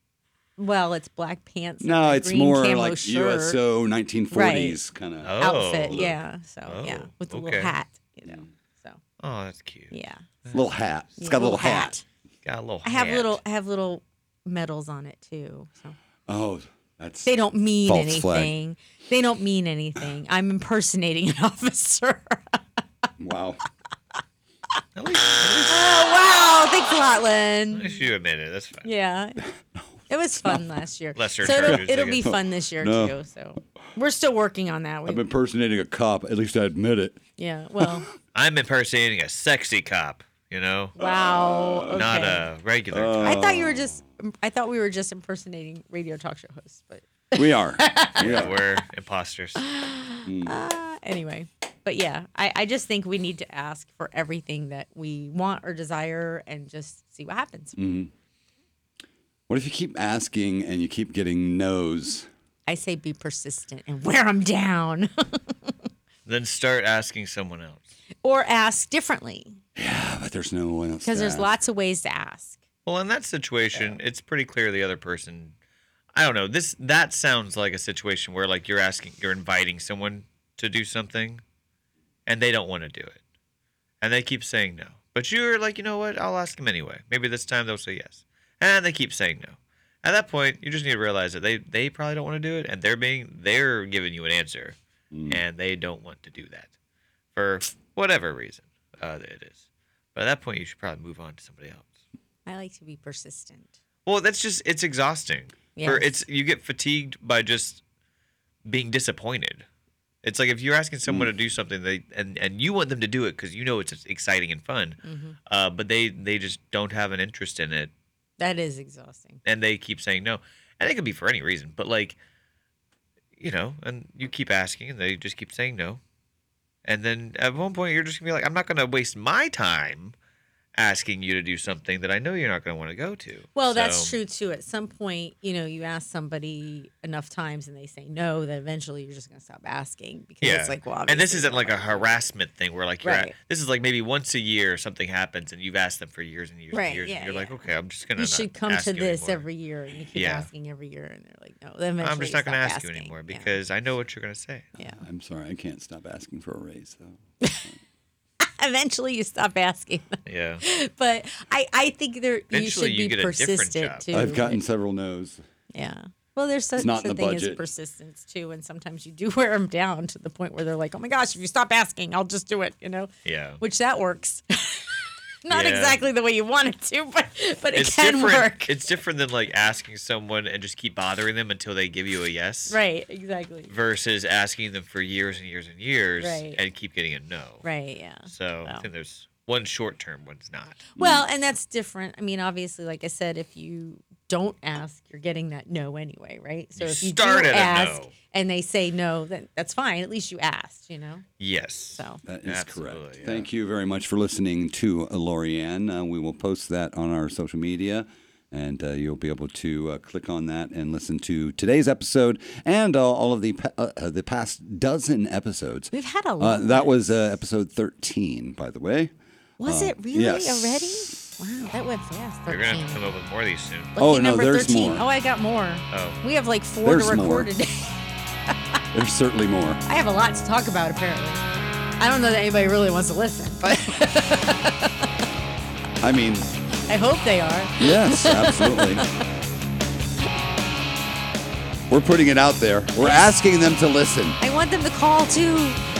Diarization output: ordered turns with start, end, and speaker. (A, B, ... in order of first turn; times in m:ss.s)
0:00.6-0:03.6 A
0:01.8-0:06.1 B
0:04.3-0:04.8 A
0:05.2-0:07.7 C
0:05.4-0:09.0 A
0:09.2-0:09.9 C
0:09.9-0:10.2 A
0:10.5-0:12.0 B
0:11.2-0:12.0 A
0:12.4-0:13.4 C
0:12.8-0:15.9 A
0:16.3-0:17.3 B
0:17.2-0:22.6 A
0:17.8-0:18.5 B
0:23.2-0:23.6 B
0:24.9-0:25.9 C
0:25.7-0:28.0 A
0:27.7-0:28.9 C
0:28.8-0:29.4 A
0:30.1-0:35.2 A
0:31.1-0:32.3 C
0:31.5-0:33.1 B
0:35.0-0:37.2 B
0:37.4-0:38.0 A
0:38.3-0:41.0 C
0:41.0-0:42.5 A
0:41.0-0:42.1 B
0:41.9-0:43.4 C
0:42.9-0:44.0 B
0:43.2-0:48.7 A
0:47.3-0:48.5 B
0:48.2-0:49.6 C
0:49.6-0:57.8 A
0:50.2-0:50.6 B
0:57.8-0:58.1 B
0:59.5-1:02.3 B
1:02.7-1:05.7 A
1:06.2-1:07.9 C
1:08.2-1:09.6 A
1:09.8-1:11.5 B
1:11.0-1:12.6 A
1:12.8-1:15.5 C
1:16.1-1:21.4 C
1:22.2-1:23.2 C
1:24.0-1:36.7 C
1:35.1-1:35.4 B
1:37.3-1:39.6 C
1:40.1-1:41.9 C
1:42.4-1:43.7 A
1:44.0-1:47.8 C
1:45.8-1:46.2 A
1:48.6-1:49.6 C
1:50.2-1:55.0 C
1:55.0-1:55.4 A
1:55.5-1:57.9 C
1:58.4-1:59.4 A
1:59.4-2:02.2 C
2:03.4-2:06.0 C
2:06.8-2:10.1 C
2:10.8-2:14.2 C
2:13.5-2:22.2 A
2:20.4-2:29.4 C
2:23.0-2:23.3 A
2:26.7-2:33.6 A
2:30.1-2:30.5 C
2:32.0-2:34.7 C
2:34.8-2:35.0 A
2:34.8-2:37.1 B
2:37.4-2:37.6 A
2:38.4-2:44.6 A
2:40.2-2:40.6 C
2:42.5-2:44.1 C
2:44.1-2:45.4 B
2:45.7-2:53.1 A
2:46.8-2:47.6 B
2:53.2-2:53.6 C
2:53.6-2:58.8 A
2:55.5-2:56.0 C
2:57.7-3:02.8 C
3:02.7-3:03.7 A
3:03.7-3:07.6 C
3:06.2-3:06.6 A
3:07.6-3:08.8 A
3:08.2-3:10.9 C
3:10.9-3:21.2 A
3:11.0-3:11.2 B
3:16.8-3:18.1 C
3:21.4-3:23.5 C
3:21.9-3:22.2 A
3:22.2-3:39.1 B
3:35.9-3:36.9 A
3:39.6-3:43.0 A
3:39.6-3:41.0 B
3:42.5-3:43.9 C
3:44.0-3:48.0 A
3:44.0-3:45.0 B
3:45.9-3:46.2 C
3:46.8-3:47.5 B
3:48.9-3:49.8 B
3:49.8-3:51.4 A
3:52.0-3:54.9 A
3:56.0-3:56.5 B
3:56.9-3:59.0 A
3:57.8-3:59.0 B
4:01.9-4:04.4 B
4:03.0-4:03.3 A
4:04.4-4:05.8 A